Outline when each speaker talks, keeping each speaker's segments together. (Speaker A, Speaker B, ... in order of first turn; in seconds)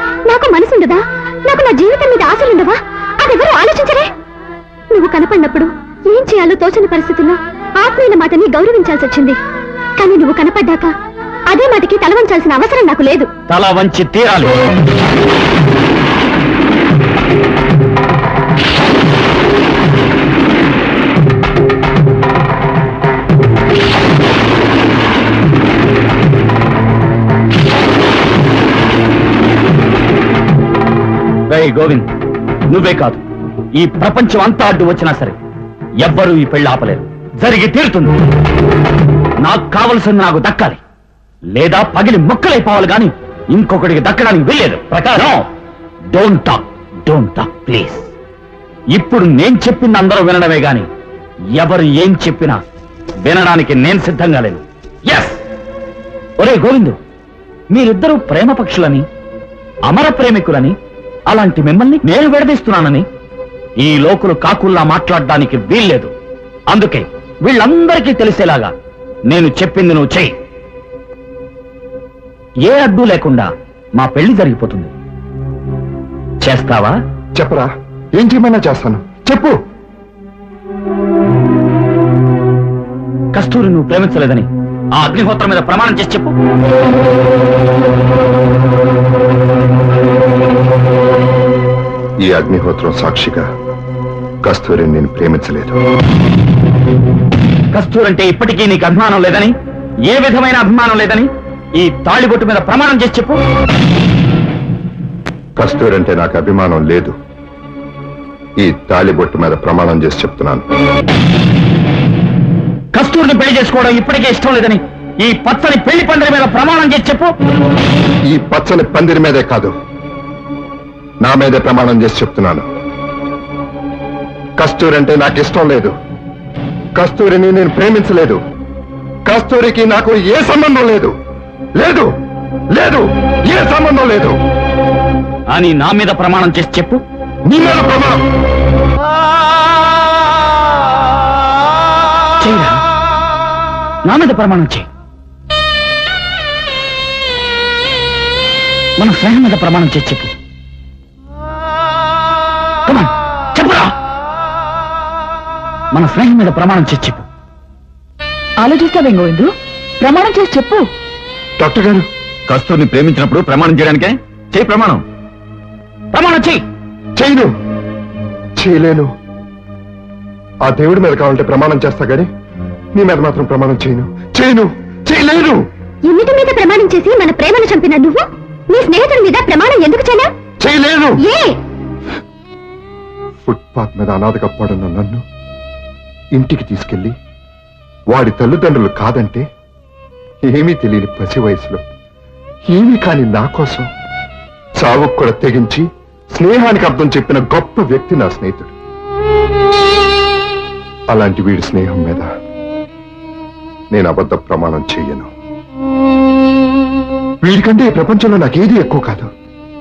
Speaker A: 0.3-4.1, 4.9-9.4, 10.0-10.9, 11.5-13.3, 176.1-180.3, 181.2-181.6
Speaker B: 13.5-14.6, 31.5-32.1, 32.7-33.2, 33.8-35.4, 36.0-38.1, 39.4-40.8, 41.5-45.5, 46.1-48.1, 48.9-50.9, 51.5-52.6, 53.2-55.4, 56.4-57.0, 57.7-59.0, 59.9-60.8, 61.3-63.0, 63.8-66.1, 66.7-68.7, 69.3-70.3, 72.7-74.9, 76.4-77.0, 83.3-86.3, 97.7-99.5, 100.1-103.4, 112.9-117.3, 135.5-137.0, 142.4-142.8, 144.1-144.9, 149.0-150.3, 152.9-153.9, 155.9-157.2, 166.1-166.6
Speaker C: 77.4-79.6, 92.2-93.5, 94.4-95.8, 105.6-107.1, 108.6-110.6, 118.3-119.7, 121.2-122.7, 124.6-125.9, 127.0-128.4, 129.2-131.1, 131.8-132.1, 132.7-134.3, 137.4-138.2, 161.6-162.1, 167.2-167.5, 168.6-169.1, 170.6-172.3, 172.9-175.6, 180.6-181.2, 183.4-185.2, 186.3-187.1, 188.1-189.4, 190.4-191.8, 192.7-193.9, 194.8-198.7, 201.1-202.3, 203.9-205.3, 207.4-209.3
Speaker D: 158.6-160.8
Speaker E: 162.5-165.0